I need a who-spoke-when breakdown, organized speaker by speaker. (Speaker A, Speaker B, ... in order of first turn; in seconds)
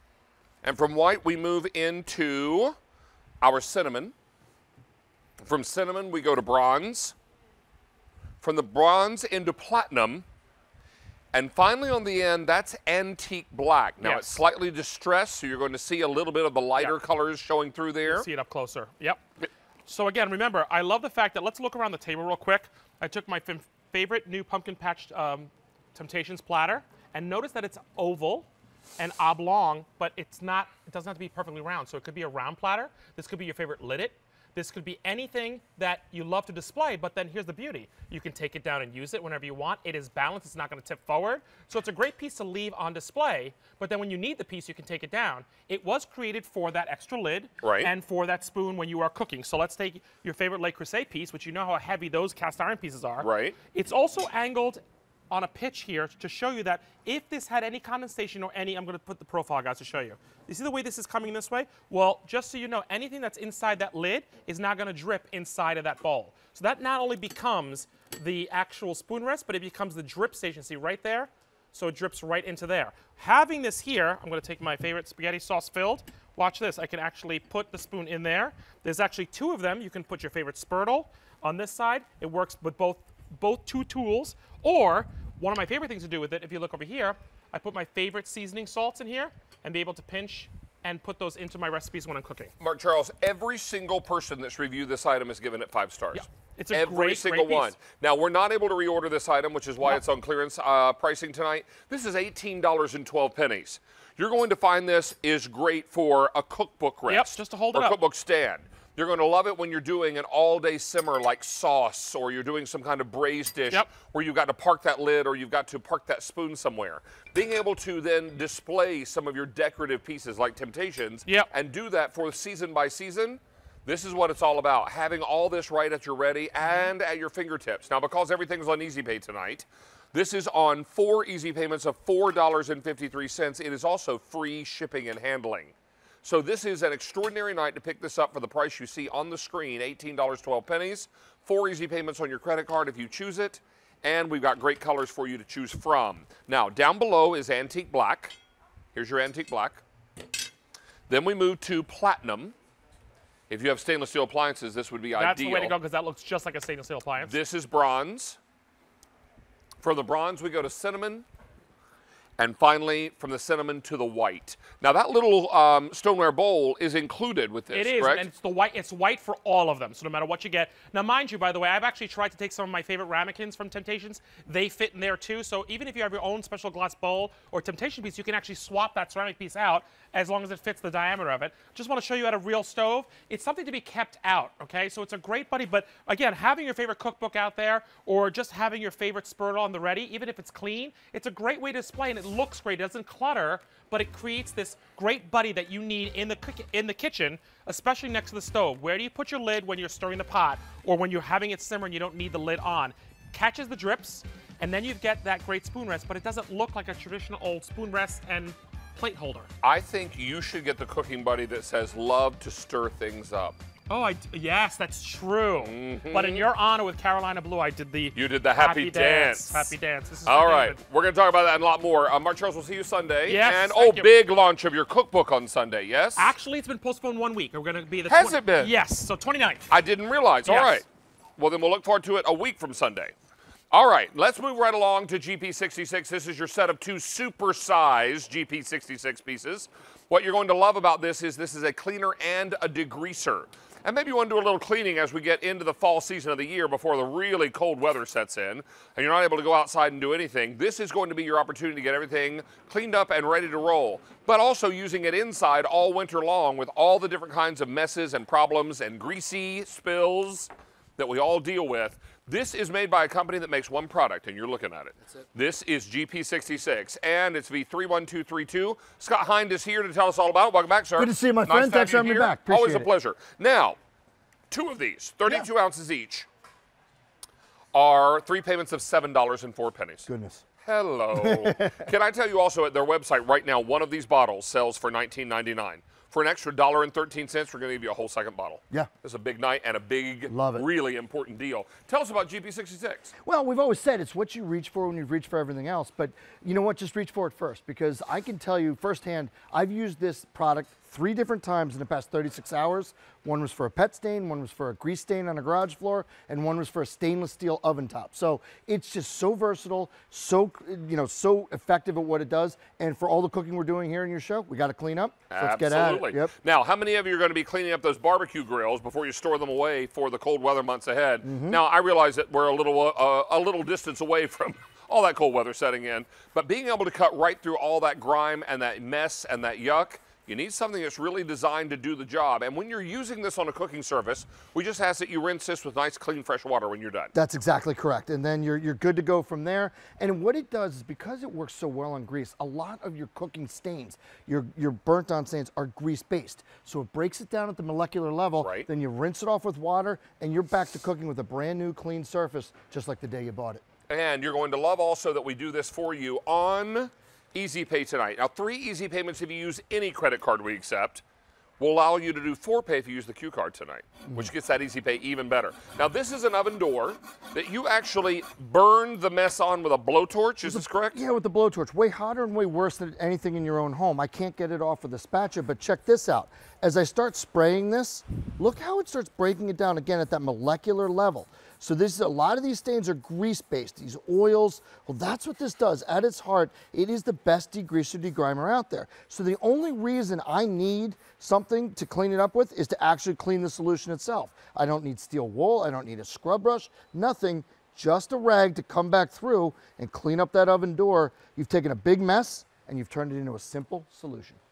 Speaker A: 0.6-2.8, 3.4-4.1, 5.4-7.1, 8.4-10.2, 11.3-18.3, 47.6-47.9, 53.2-53.6, 92.6-148.3, 148.9-149.8, 151.1-152.5, 153.5-155.7, 157.2-158.4, 159.8-161.2, 162.4-168.2, 209.6-213.6, 215.6-216.4, 218.1-219.7, 220.2-226.3, 228.1-228.7, 229.7-230.8, 231.4-233.1, 233.7-273.8, 274.5-276.3, 277.7-280.1, 280.6-293.1, 315.3-337.1, 348.4-348.7, 353.9-361.0, 361.6-371.0
Speaker B: 14.0-14.4, 18.0-19.2, 19.9-92.5, 96.1-97.8, 107.1-108.0, 155.1-157.3, 167.7-209.5, 213.9-220.8, 223.3-224.1, 226.2-229.7, 230.4-230.8
Speaker C: 271.0-272.9, 280.1-280.4, 281.1-281.8, 290.3-290.6, 293.2-316.3, 321.2-321.6, 337.1-353.6, 370.4-404.4